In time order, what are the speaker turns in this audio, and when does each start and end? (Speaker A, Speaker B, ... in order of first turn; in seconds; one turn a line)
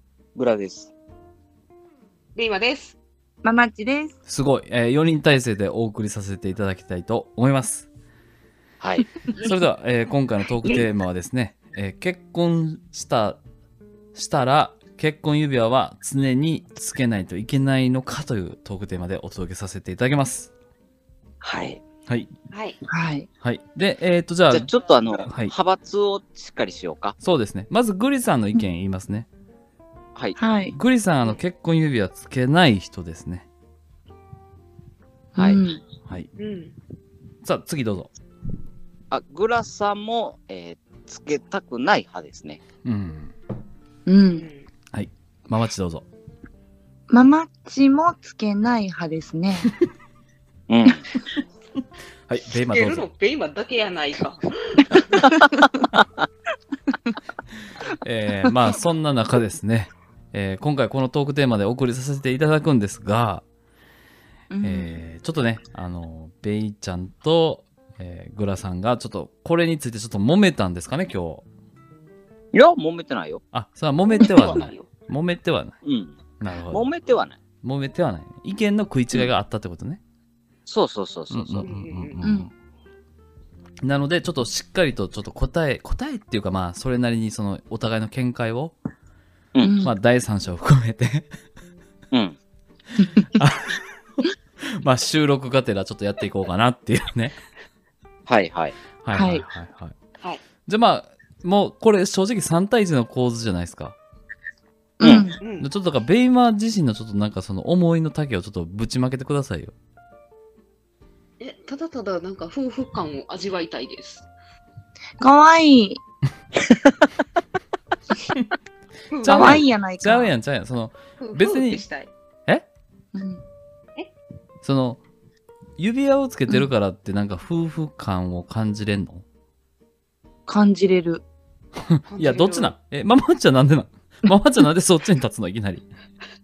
Speaker A: 0.4-0.9
Speaker B: 2.4-3.0
Speaker C: 3.4-4.2
Speaker D: 4.3-7.9
Speaker A: 8.8-9.2
Speaker B: 9.3-9.7
Speaker D: 9.5-13.4
Speaker D: 14.1-20.5
Speaker A: 21.4-21.8
Speaker B: 22.5-22.8
Speaker C: 22.9-23.3
Speaker D: 23.4-24.7
Speaker A: 24.5-27.1
Speaker D: 25.3-25.5
Speaker D: 27.2-29.3
Speaker C: 30.4-30.8
Speaker D: 30.7-33.5
Speaker C: 35.4-35.8
Speaker B: 36.4-36.8
Speaker D: 37.4-38.1
Speaker A: 39.1-42.6
Speaker D: 42.9-43.3
Speaker C: 44.1-44.5
Speaker B: 44.4-44.7
Speaker D: 44.9-46.0
Speaker C: 47.1-49.7
Speaker A: 50.7-51.0
Speaker D: 52.3-53.1
Speaker B: 52.7-54.9
Speaker C: 54.9-55.5
Speaker D: 58.0-63.4
Speaker C: 64.5-65.0
Speaker D: 64.6-71.5
Speaker A: 72.5-73.4
Speaker D: 73.5-75.8
Speaker B: 74.1-74.9
Speaker A: 75.8-76.2
Speaker D: 76.4-76.9
Speaker A: 76.7-77.4
Speaker D: 77.6-80.0
Speaker A: 80.7-81.7
Speaker D: 81.3-82.5
Speaker B: 81.6-82.2
Speaker C: 82.2-82.5
Speaker D: 83.8-88.7
Speaker C: 89.6-89.9
Speaker D: 89.8-91.3
Speaker A: 92.1-92.4
Speaker D: 93.4-97.4
Speaker A: 98.3-98.8
Speaker D: 99.0-99.9
Speaker C: 99.1-99.5
Speaker B: 100.2-100.5
Speaker D: 100.6-104.0
Speaker C: 105.0-105.4
Speaker A: 105.0-105.3
Speaker B: 105.4-105.7
Speaker D: 105.6-109.7
Speaker B: 111.4-114.3
Speaker C: 115.2-116.0
Speaker B: 119.1-119.6
Speaker D: 119.2-121.9
Speaker C: 119.3-120.3
Speaker B: 121.2-122.1
Speaker C: 123.1-123.4
Speaker D: 124.6-125.0
Speaker D: 125.8-129.2
Speaker C: 130.5-131.2
Speaker D: 131.9-135.9
Speaker B: 132.1-132.7